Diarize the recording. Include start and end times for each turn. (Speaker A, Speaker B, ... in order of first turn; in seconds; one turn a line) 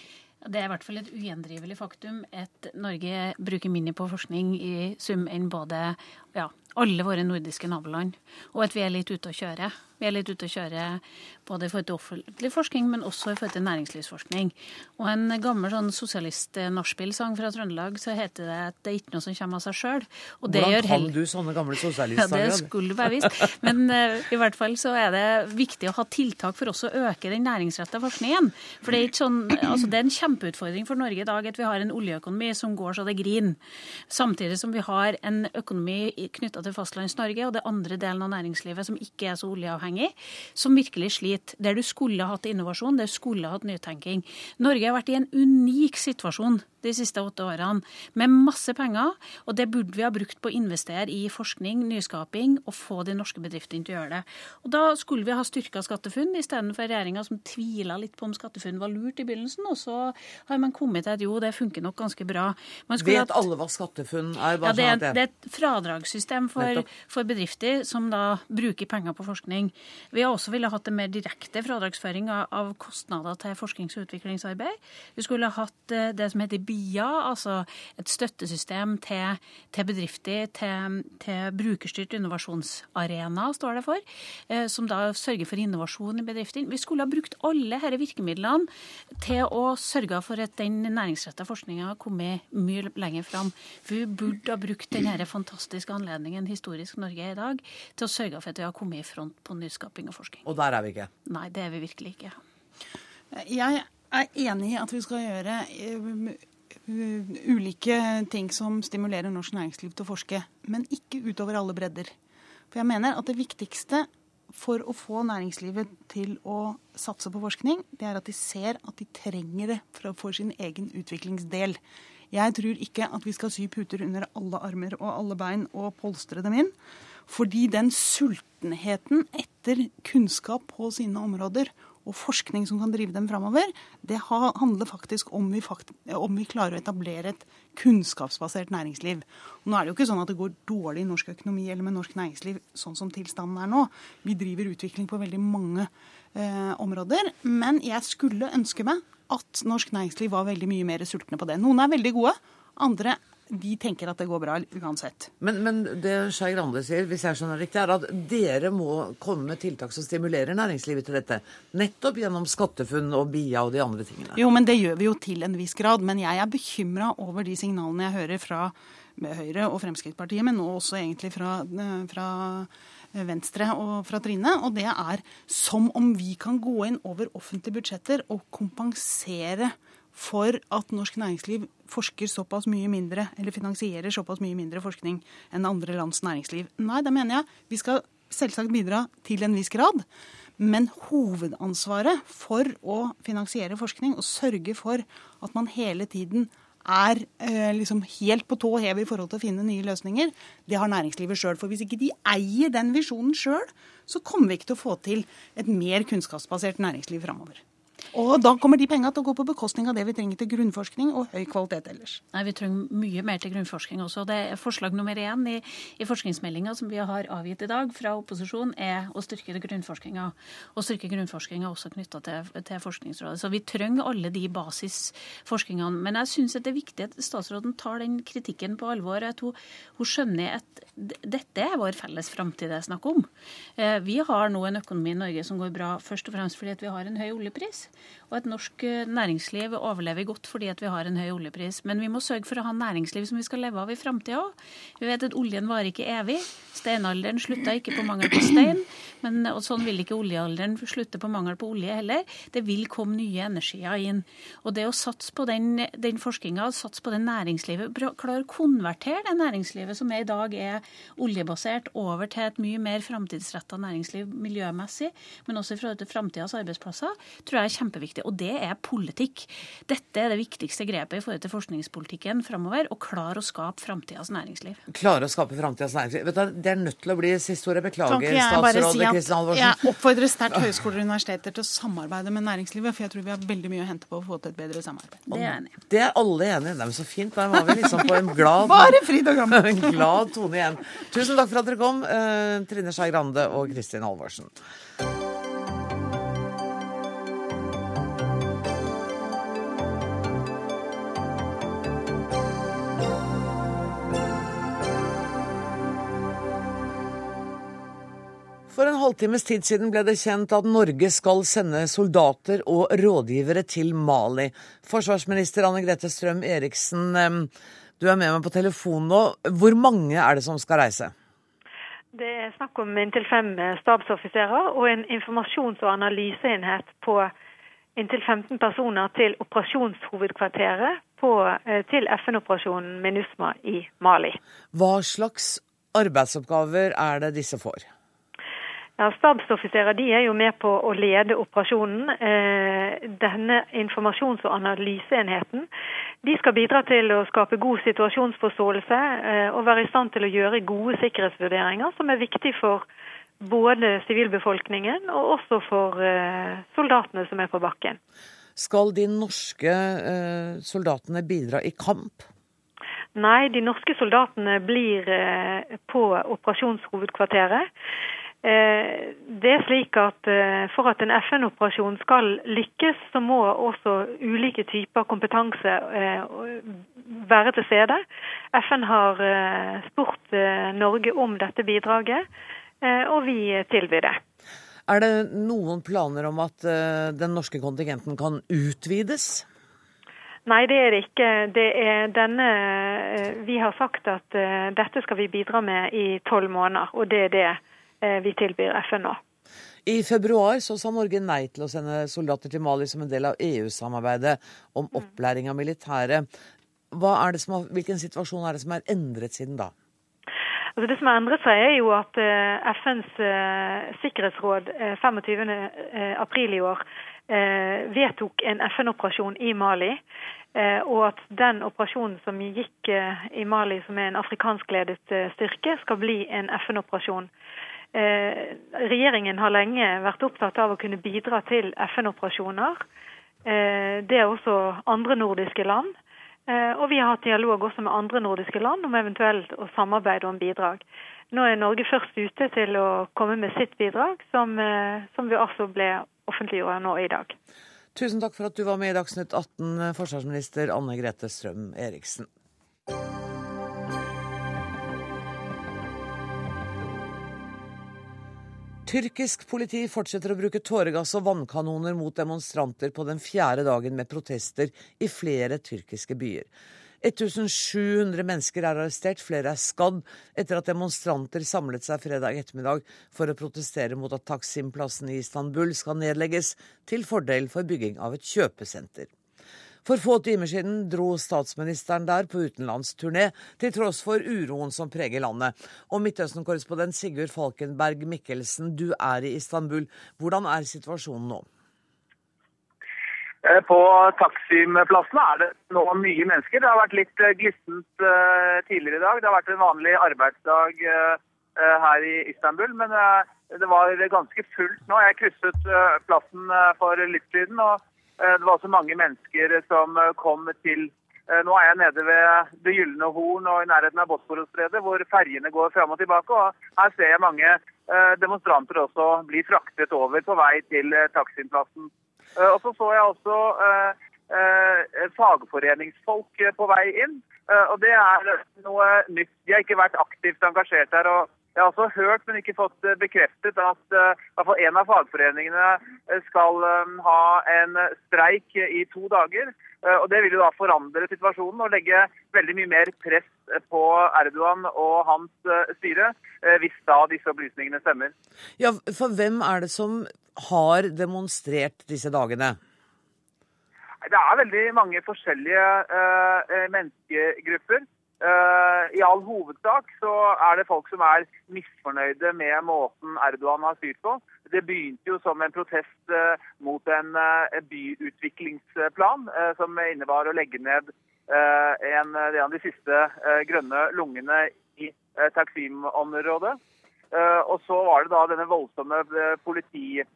Speaker A: 0.4-21.1
Speaker B: 20.5-22.7
Speaker A: 22.1-63.4
Speaker B: 63.0-65.2
Speaker A: 64.6-100.4
Speaker B: 66.6-66.9
Speaker B: 100.5-101.1
Speaker A: 101.2-102.4
Speaker C: 103.3-112.1
Speaker C: 112.7-121.8
Speaker C: 122.3-126.7
Speaker C: 127.3-155.3
Speaker B: 155.4-164.4
Speaker C: 164.4-190.1
Speaker C: 190.6-207.6
Speaker C: 208.1-212.2
Speaker A: 212.3-274.8
Speaker B: 274.9-279.8
Speaker C: 278.1-285.3
Speaker A: 285.3-285.7
Speaker B: 285.3-294.5
Speaker C: 287.8-288.1
Speaker C: 288.6-290.1
Speaker B: 308.7-321.1
Speaker D: 322.1-327.3
Speaker D: 327.9-334.4
Speaker B: 334.7-337.9
Speaker D: 339.0-345.7
Speaker D: 346.2-352.8
Speaker D: 353.4-358.0
Speaker B: 358.6-362.3
Speaker D: 363.1-367.7
Speaker D: 368.4-378.0
Speaker D: 378.5-382.2
Speaker D: 382.8-384.2
Speaker B: 384.9-389.4
Speaker D: 390.4-399.2
Speaker B: 399.9-406.3
Speaker B: 406.9-409.7
Speaker D: 410.8-420.0
Speaker D: 420.6-427.3
Speaker D: 427.9-432.8
Speaker D: 433.4-435.9
Speaker D: 436.5-447.4
Speaker B: 447.9-452.3
Speaker B: 458.8-466.5
Speaker B: 467.0-479.1
Speaker B: 479.8-491.4
Speaker E: 493.4-548.1
Speaker B: 548.6-552.6
Speaker E: 554.0-576.6
Speaker E: 577.1-580.0